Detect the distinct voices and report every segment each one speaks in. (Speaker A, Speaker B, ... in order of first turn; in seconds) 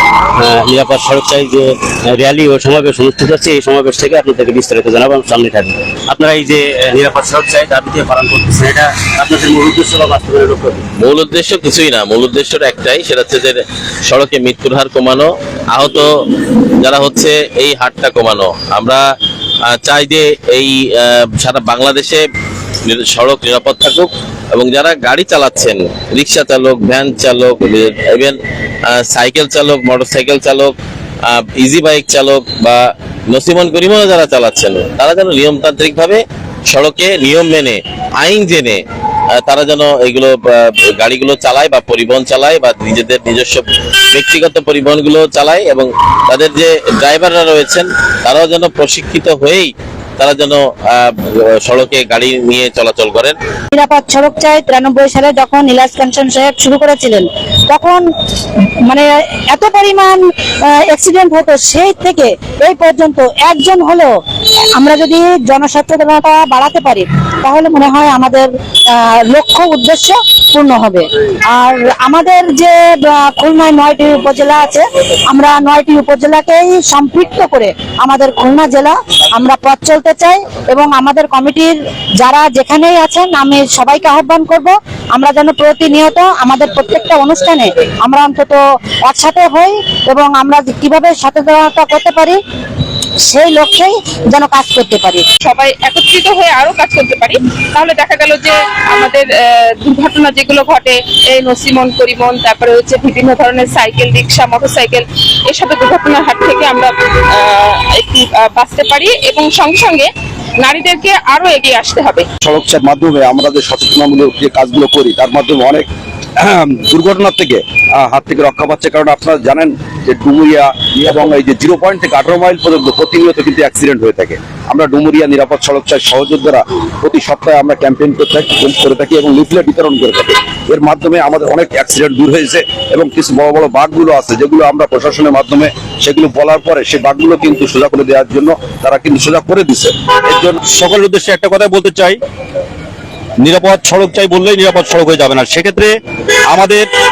Speaker A: 0.3-10.8
Speaker B: 11.0-19.0, 19.7-22.2, 22.9-30.7, 31.2-53.4
Speaker C: 53.7-58.0, 58.9-64.1, 64.8-92.4, 93.2-95.2
Speaker D: 95.4-110.1, 110.6-112.2
Speaker E: 112.4-115.9, 116.4-140.6
Speaker F: 140.6-142.2, 143.4-145.9, 146.5-146.9